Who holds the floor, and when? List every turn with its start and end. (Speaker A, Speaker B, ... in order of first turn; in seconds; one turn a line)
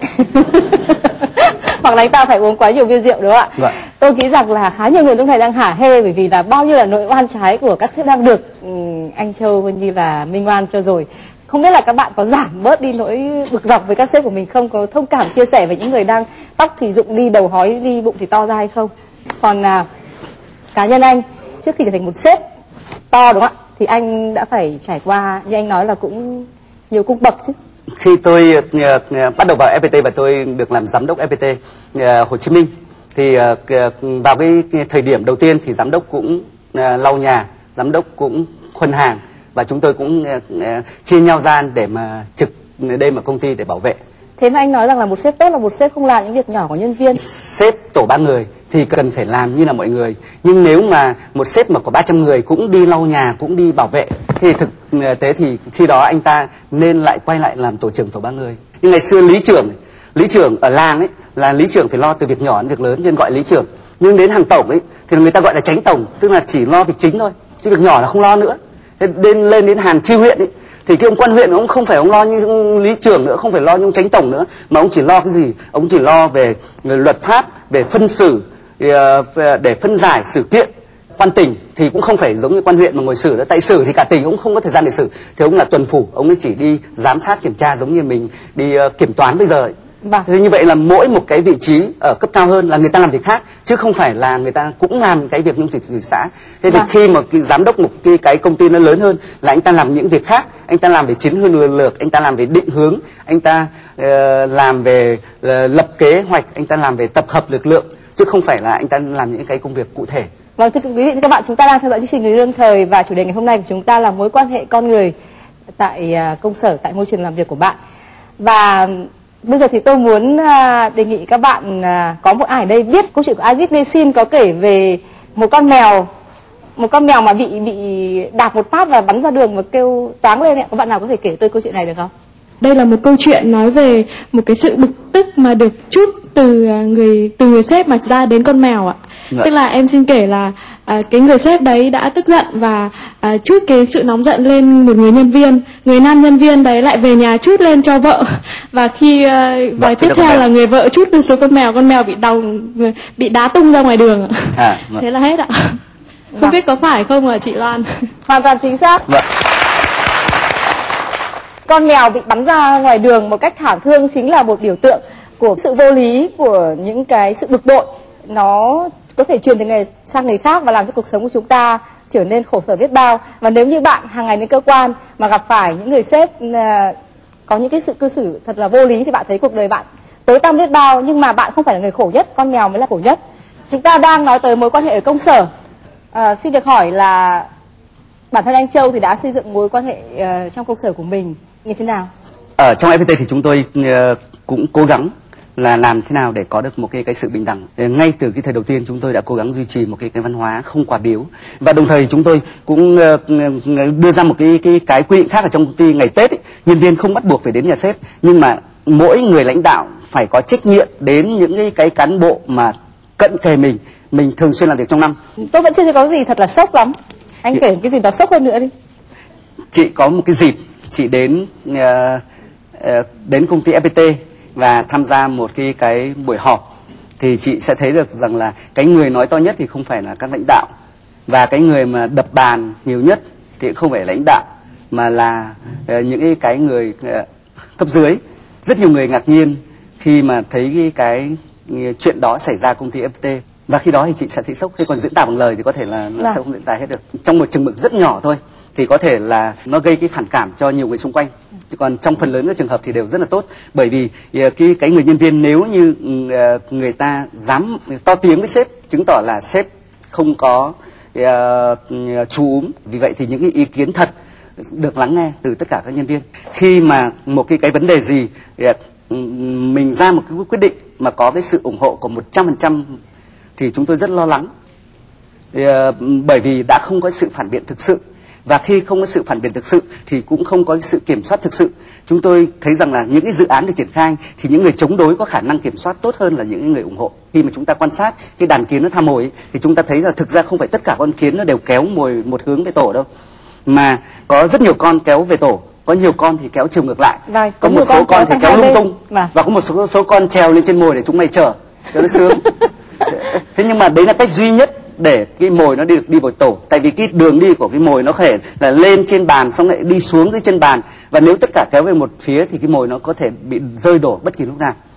Speaker A: 0.3-18.9
Speaker A: 19.4-19.8
Speaker A: 20.7-22.4
Speaker A: 23.1-27.5
Speaker B: 28.0-44.0
Speaker A: 44.4-47.2
Speaker B: 47.1-89.7
Speaker B: 90.2-110.3
Speaker A: 110.6-115.1
Speaker A: 115.8-117.8
Speaker A: 118.4-126.1
Speaker A: 126.8-132.1
Speaker C: 132.6-155.8
Speaker B: 149.8-150.5
Speaker B: 154.6-155.0
Speaker C: 156.4-157.9
Speaker A: 158.3-159.0
Speaker A: 161.7-176.9
Speaker A: 177.5-185.5
Speaker A: 186.1-187.5
Speaker A: 188.3-192.1
Speaker B: 192.6-215.2
Speaker A: 215.4-218.7
Speaker B: 219.7-222.2
Speaker B: 222.8-226.6
Speaker B: 227.2-230.7
Speaker B: 231.3-237.2
Speaker B: 237.8-264.1
Speaker B: 264.6-272.9
Speaker B: 273.6-274.5
Speaker B: 275.5-293.1
Speaker B: 293.7-302.4
Speaker A: 297.3-299.3
Speaker B: 303.1-314.7